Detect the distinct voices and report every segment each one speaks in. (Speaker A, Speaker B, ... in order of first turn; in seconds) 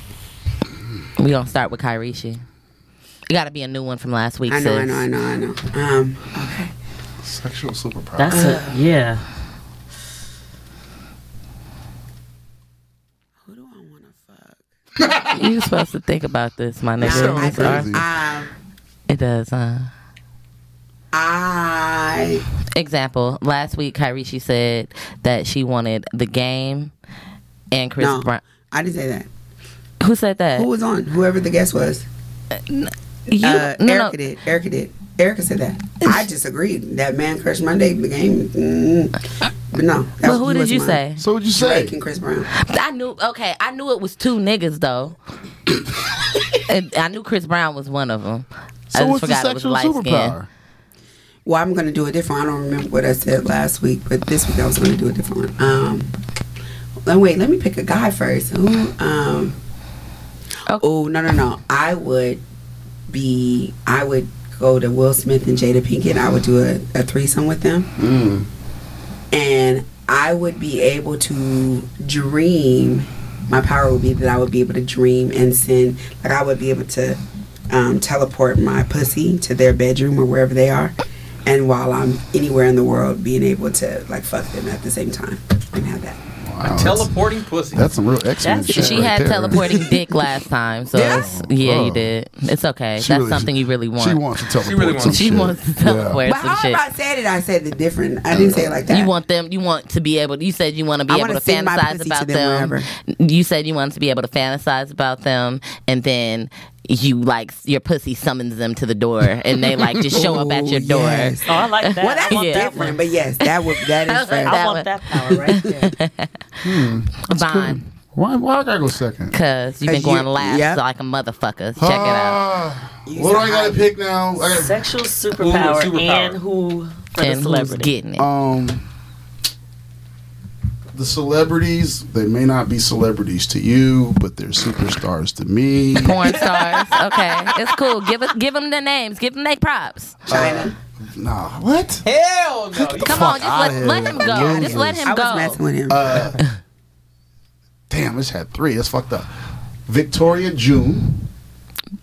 Speaker A: 1.2-2.4, 3.3-5.1, 15.3-18.0, 19.1-19.9, 22.8-26.9, 27.7-28.4, 30.0-30.7, 32.7-34.2, 40.2-41.2, 42.5-45.2, 46.6-50.4, 88.7-94.2, 95.0-96.8, 98.9-114.9, 115.5-116.3, 117.3-117.9, 119.3-122.4, 127.2-128.3, 136.0-140.2, 143.0-145.6
Speaker B: 4.5-6.7, 8.3-8.8, 13.5-14.6, 17.0-18.5, 21.1-22.4, 28.0-29.3, 30.6-32.0, 33.4-39.2, 39.7-41.0, 41.5-42.5, 51.5-56.1, 57.1-59.6, 60.8-62.4, 63.1-67.9, 69.3-77.2, 77.7-80.9, 81.5-86.2, 89.6-90.0, 90.9-91.3, 96.2-99.1, 101.1-102.9, 110.1-114.6, 119.8-120.8, 123.1-123.8, 140.3-140.8, 144.2-146.3
Speaker C: 7.2-8.6, 15.0-15.5, 17.0-18.1, 41.2-42.0, 48.9-50.5, 68.0-68.5, 86.5-87.1, 87.7-90.0, 90.9-92.1, 93.0-96.2, 98.3-98.8, 116.6-119.3, 121.8-124.8, 128.2-128.8, 130.9-136.4, 140.3-142.0, 142.8-145.2, 145.9-146.4, 147.9-149.3, 149.9-151.2
Speaker D: 8.2-9.2, 88.4-89.2, 111.5-113.0, 114.4-116.0, 124.4-127.9, 136.4-137.4
Speaker E: 86.6-87.8, 94.6-95.5, 125.4-126.4, 142.1-143.9